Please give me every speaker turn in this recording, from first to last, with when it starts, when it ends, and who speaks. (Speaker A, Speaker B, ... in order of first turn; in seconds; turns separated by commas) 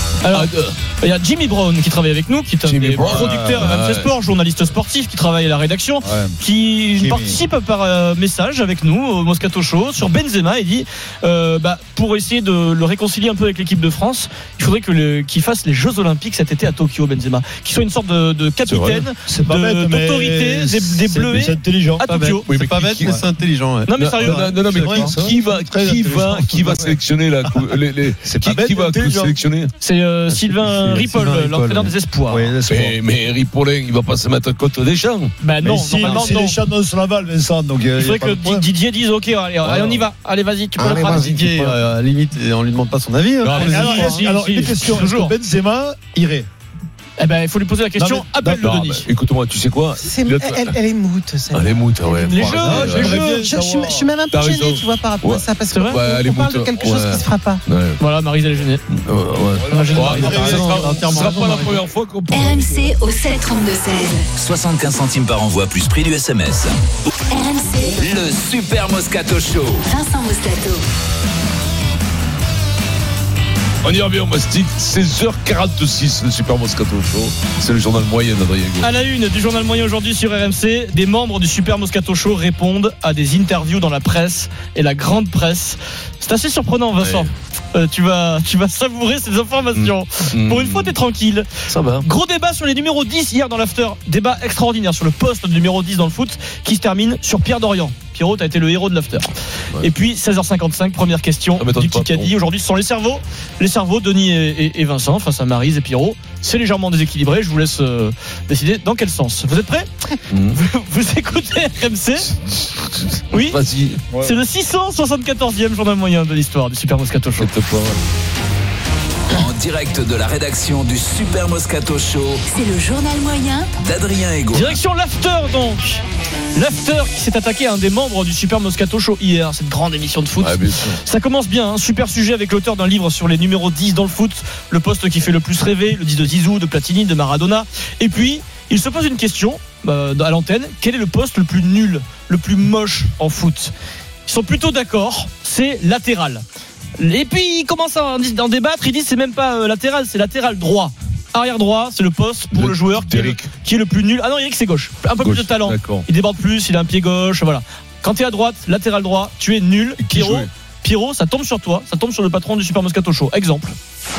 Speaker A: 0.2-22.4, Speaker B: 0.3-0.8, Speaker B: 2.6-4.1, Speaker C: 3.0-3.7, Speaker C: 6.0-6.4, Speaker C: 7.0-7.4, Speaker B: 18.7-19.0, Speaker C: 19.3-22.1, Speaker D: 22.1-25.1, Speaker B: 22.5-23.2, Speaker A: 23.9-24.5, Speaker B: 23.9-29.7, Speaker C: 24.2-27.0, Speaker C: 28.2-29.4, Speaker A: 29.8-32.5, Speaker D: 30.5-31.9, Speaker C: 32.3-33.0, Speaker B: 32.7-35.3, Speaker A: 35.4-36.6, Speaker C: 35.6-38.7, Speaker A: 38.0-41.7, Speaker C: 39.6-40.0, Speaker D: 40.8-44.3, Speaker B: 43.4-43.8, Speaker A: 43.5-45.3, Speaker C: 43.5-46.5, Speaker A: 47.2-49.1, Speaker C: 48.0-48.7, Speaker B: 48.6-50.7, Speaker E: 50.0-57.6, Speaker B: 51.5-53.2, Speaker A: 52.3-53.5, Speaker C: 52.6-54.1, Speaker B: 54.3-58.0, Speaker A: 55.7-56.0, Speaker A: 58.0-58.8, Speaker B: 58.9-62.9, Speaker C: 59.6-60.8, Speaker A: 59.7-60.7, Speaker D: 60.1-61.8, Speaker F: 62.3-64.3, Speaker G: 64.4-66.7, Speaker F: 67.3-68.0, Speaker G: 68.0-69.8, Speaker F: 69.9-70.8, Speaker B: 73.8-78.9, Speaker A: 78.8-91.5, Speaker B: 87.0-87.3, Speaker B: 89.7-91.0, Speaker B: 91.7-92.1, Speaker A: 92.0-99.3, Speaker A: 99.8-109.9, Speaker B: 101.6-102.3, Speaker B: 110.3-110.6, Speaker A: 110.5-112.3, Speaker B: 112.3-114.0, Speaker A: 113.3-113.6, Speaker C: 114.1-114.4, Speaker A: 114.2-117.5, Speaker B: 117.3-118.0, Speaker G: 119.3-122.4, Speaker F: 122.5-123.7, Speaker G: 123.8-124.8, Speaker A: 124.5-126.0, Speaker A: 126.5-143.7, Speaker B: 130.4-131.0, Speaker A: 144.2-146.4, Speaker A: 147.0-163.7, Speaker B: 152.5-153.5, Speaker B: 155.2-156.0, Speaker B: 160.0-160.5